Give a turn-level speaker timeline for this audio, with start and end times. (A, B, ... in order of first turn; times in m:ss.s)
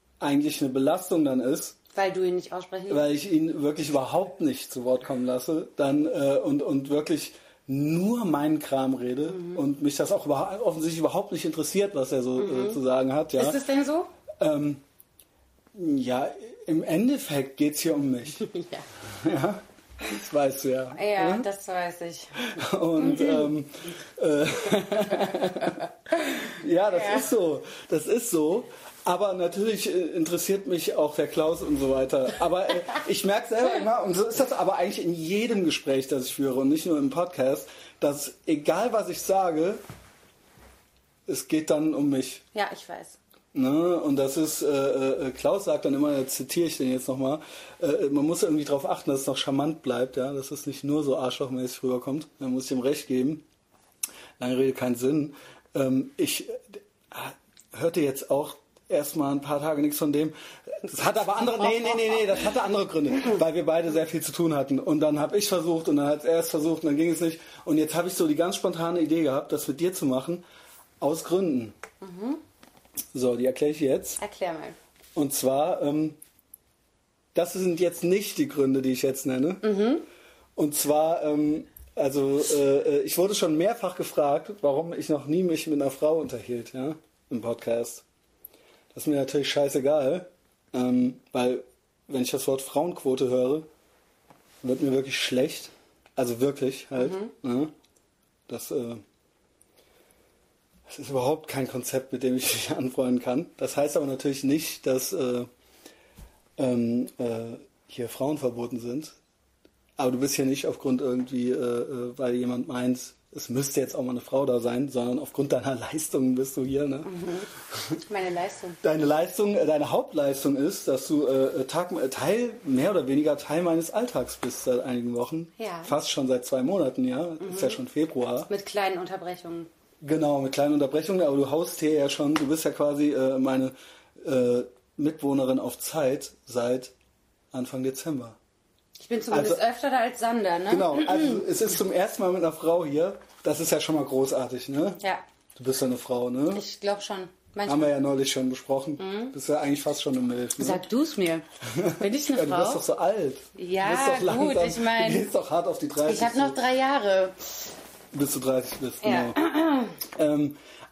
0:00.2-0:01.8 A
0:01.9-0:03.0 B
0:02.9-0:13.6 A
0:09.3-0:09.6 B
0:12.4-0:12.8 B
0:13.4-0:14.1 B
0:14.4-0:14.8 A
0:15.7-0:18.5 A
0:18.4-0:18.8 B
0:19.2-0:21.4 A
0:20.9-0:23.5 B
0:22.4-0:39.8 A
0:25.1-0:25.4 B
0:26.9-0:27.3 B
0:41.3-0:42.4 A
0:42.5-0:43.2 B
0:43.5-0:53.4 A
0:54.4-1:10.4 A
1:01.7-1:02.1 B
1:11.0-1:11.7 A
1:12.0-1:12.4 B
1:13.1-1:14.2 A
1:14.2-1:14.8 B
1:15.1-1:16.2 A
1:17.3-1:19.7 A
1:19.6-1:20.0 B
1:20.6-1:28.0 A
1:28.9-1:33.7 A
1:34.6-1:37.7 A
1:37.0-1:37.3 B
1:38.5-1:39.0 A
1:40.9-1:45.5 A
1:46.6-1:49.1 A
1:50.0-1:57.1 A
1:57.0-1:57.5 B
1:58.1-1:58.8 B
1:58.8-2:08.5 A
2:05.6-2:05.9 B
2:07.4-2:07.8 B
2:08.5-2:09.7 B
2:10.0-2:16.9 A
2:17.5-2:18.4 A
2:19.0-2:21.5 B
2:19.3-2:19.6 A
2:20.7-2:25.0 A
2:25.6-2:26.6 A
2:26.5-2:27.9 B
2:27.6-2:30.8 A
2:29.0-2:29.3 B
2:30.6-2:31.4 B
2:31.7-2:36.6 A
2:32.0-2:32.8 B
2:33.6-2:35.3 B
2:36.0-2:37.4 B
2:38.1-2:39.4 A
2:39.0-2:39.9 B
2:40.0-2:40.6 A